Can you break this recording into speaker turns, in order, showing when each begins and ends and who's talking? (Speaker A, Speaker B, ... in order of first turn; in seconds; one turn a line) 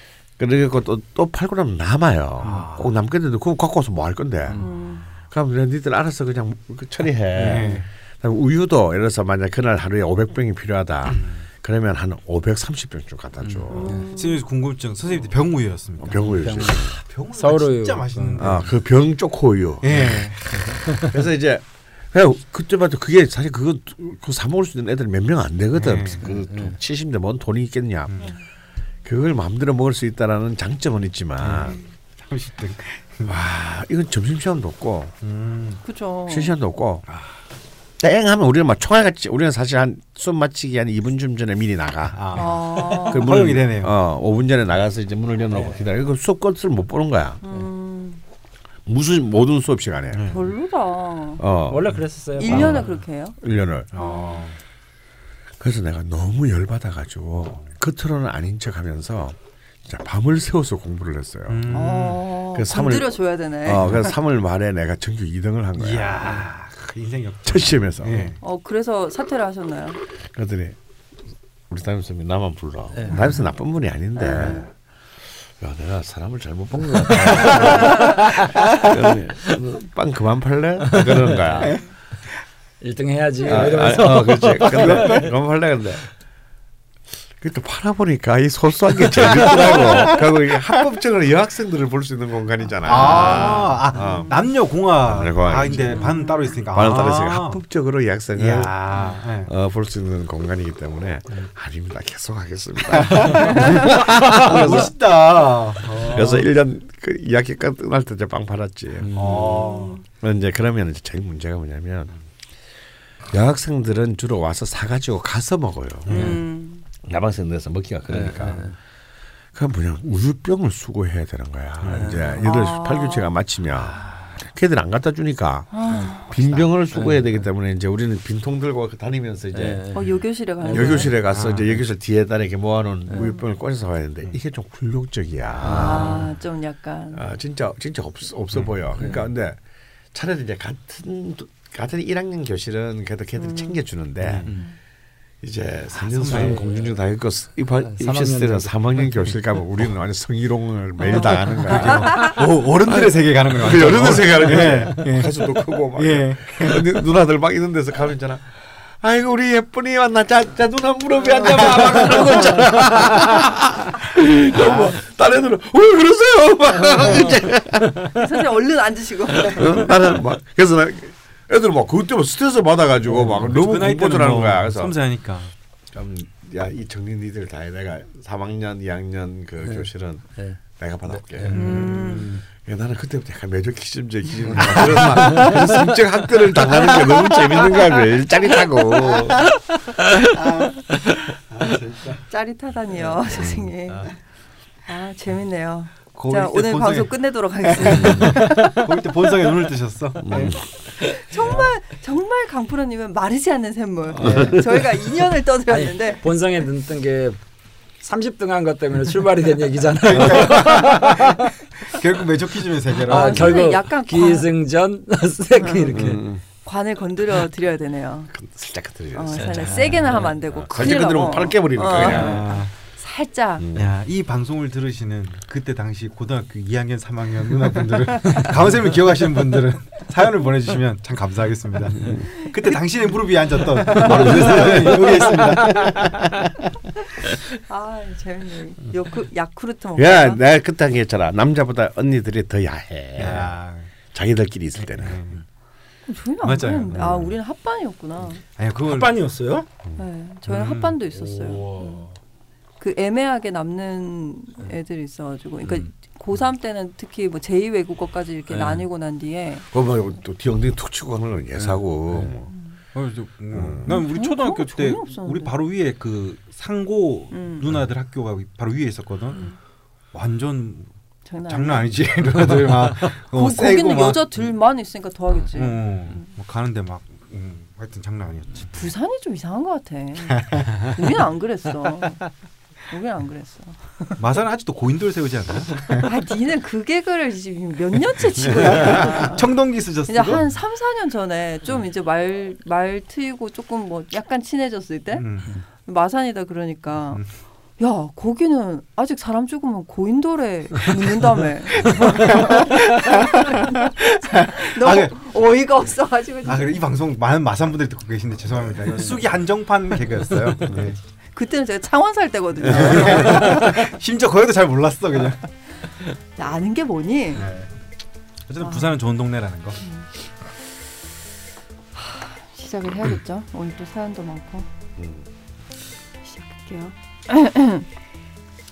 Speaker A: 0.4-4.7
Speaker B: 2.4-2.9
Speaker C: 4.6-5.0
Speaker A: 5.3-14.0
Speaker D: 7.3-7.8
Speaker B: 7.4-7.9
Speaker B: 11.1-11.4
Speaker B: 13.4-18.7
Speaker C: 13.7-14.4
Speaker A: 16.0-17.0
Speaker D: 16.3-18.6
Speaker A: 18.4-20.3
Speaker B: 19.8-20.7
Speaker A: 20.8-28.3
Speaker B: 25.7-26.2
Speaker D: 26.2-26.8
Speaker B: 28.1-28.3
Speaker A: 29.0-31.8
Speaker B: 31.4-33.4
Speaker A: 33.3-35.1
Speaker B: 35.2-35.8
Speaker C: 35.8-36.5
Speaker A: 36.3-37.0
Speaker A: 38.0-47.4
Speaker B: 42.1-44.0
Speaker C: 42.4-43.4
Speaker C: 47.4-48.2
Speaker A: 48.9-50.4
Speaker B: 50.1-50.4
Speaker C: 50.3-51.4
Speaker A: 51.4-52.9
Speaker D: 51.7-52.9
Speaker C: 52.4-53.4
Speaker A: 53.4-53.9
Speaker B: 53.9-54.6
Speaker C: 54.0-54.5
Speaker A: 55.6-61.7
Speaker B: 61.5-62.2
Speaker C: 61.7-64.1
Speaker A: 62.5-66.4
Speaker B: 65.8-68.4
Speaker A: 67.4-68.3
Speaker C: 68.4-70.0
Speaker A: 70.3-70.8
Speaker A: 71.7-74.7
Speaker D: 72.9-73.2
Speaker C: 74.2-74.7
Speaker A: 75.5-81.8
Speaker D: 77.1-78.4
Speaker D: 80.9-81.7
Speaker D: 82.8-85.3
Speaker A: 83.4-86.1
Speaker B: 84.7-85.1
Speaker A: 87.4-94.4
Speaker B: 92.8-97.6
Speaker C: 92.9-94.4
Speaker A: 95.0-98.8
Speaker C: 95.8-96.6
Speaker B: 98.3-99.5
Speaker C: 98.9-99.2
Speaker A: 99.4-104.9
Speaker B: 102.9-106.5
Speaker A: 106.1-109.5
Speaker D: 109.0-109.6
Speaker B: 109.1-110.0
Speaker C: 109.6-110.0
Speaker A: 110.2-112.1
Speaker A: 113.3-116.4
Speaker B: 116.0-116.4
Speaker C: 116.1-116.8
Speaker A: 117.0-118.7
Speaker D: 118.1-118.7
Speaker A: 119.5-129.8
Speaker B: 121.8-122.5
Speaker C: 122.4-123.3
Speaker B: 123.9-124.3
Speaker C: 125.7-126.2
Speaker D: 125.9-126.3
Speaker D: 126.9-127.4
Speaker D: 129.5-131.1
Speaker C: 129.9-131.1
Speaker A: 130.7-136.3
Speaker B: 130.9-131.8
Speaker D: 133.1-133.3
Speaker C: 133.1-133.4
Speaker D: 135.6-136.3
Speaker C: 135.7-137.2
Speaker A: 137.1-139.6
Speaker D: 139.0-139.3
Speaker A: 140.1-144.7
Speaker C: 143.3-143.8
Speaker B: 144.2-144.6
Speaker A: 145.4-168.1
Speaker B: 145.9-146.7
Speaker D: 146.3-146.7
Speaker D: 147.8-148.7
Speaker B: 151.0-156.8
Speaker B: 164.6-164.9
Speaker C: 168.1-169.8
Speaker A: 169.4-175.0
Speaker D: 173.1-173.5
Speaker B: 173.3-175.5
Speaker A: 175.9-181.9
Speaker D: 179.6-181.8
Speaker B: 181.4-182.4
Speaker C: 181.5-182.3
Speaker A: 182.6-189.5
Speaker B: 184.5-185.3
Speaker D: 185.0-185.6
Speaker C: 186.9-188.0
Speaker B: 190.3-192.2
Speaker C: 192.3-194.2
Speaker B: 192.9-193.2
Speaker A: 193.3-193.7
Speaker C: 194.8-198.7
Speaker B: 196.1-197.1
Speaker B: 197.6-200.6
Speaker A: 197.9-198.4
Speaker A: 200.2-200.6
Speaker C: 201.0-206.4
Speaker B: 201.4-201.7
Speaker A: 204.2-204.9
Speaker B: 204.2-204.6
Speaker D: 205.7-207.4
Speaker D: 208.0-211.5
Speaker B: 210.0-211.3
Speaker B: 211.8-213.6
Speaker C: 213.0-214.5
Speaker D: 213.0-216.2
Speaker C: 215.6-218.3
Speaker A: 215.9-216.4
Speaker A: 218.3-222.5
Speaker C: 219.1-223.7
Speaker D: 219.4-220.3
Speaker B: 221.9-222.7
Speaker A: 223.6-223.9
Speaker B: 223.7-236.1
Speaker C: 232.4-232.8
Speaker C: 233.9-235.3
Speaker A: 234.0-235.2
Speaker A: 235.7-236.1
Speaker C: 237.6-240.4
Speaker A: 240.0-243.5
Speaker B: 243.2-243.9
Speaker A: 244.1-245.3
Speaker B: 244.8-245.4
Speaker C: 246.1-248.4
Speaker B: 246.4-247.2
Speaker A: 246.9-247.3
Speaker B: 248.5-249.2
Speaker D: 248.8-249.7
Speaker C: 249.9-252.1
Speaker B: 250.4-251.0
Speaker D: 251.1-252.1
Speaker C: 252.8-259.7
Speaker D: 258.5-258.9
Speaker A: 259.7-262.5
Speaker B: 261.5-262.3
Speaker C: 262.5-262.8
Speaker B: 262.9-269.5
Speaker A: 263.5-263.9
Speaker C: 263.9-265.5
Speaker C: 267.3-267.7
Speaker B: 270.1-270.9
Speaker C: 271.2-271.9
Speaker B: 271.4-274.4
Speaker C: 273.3-276.2
Speaker B: 275.5-278.9
Speaker C: 278.7-282.2
Speaker B: 280.4-280.8
Speaker C: 282.9-284.1
Speaker B: 284.2-286.1
Speaker C: 286.0-289.5
Speaker B: 288.3-290.4
Speaker C: 290.1-295.3
Speaker B: 295.1-295.6
Speaker C: 295.8-297.2
Speaker C: 297.8-306.8
Speaker B: 301.8-305.3
Speaker B: 306.4-311.0
Speaker C: 311.3-313.7
Speaker B: 312.6-315.4
Speaker C: 316.4-317.4
Speaker B: 317.3-317.7
Speaker B: 318.5-319.8
Speaker C: 318.6-319.0
Speaker C: 319.8-320.1
Speaker C: 321.9-324.7
Speaker A: 325.0-325.2
Speaker C: 326.2-327.9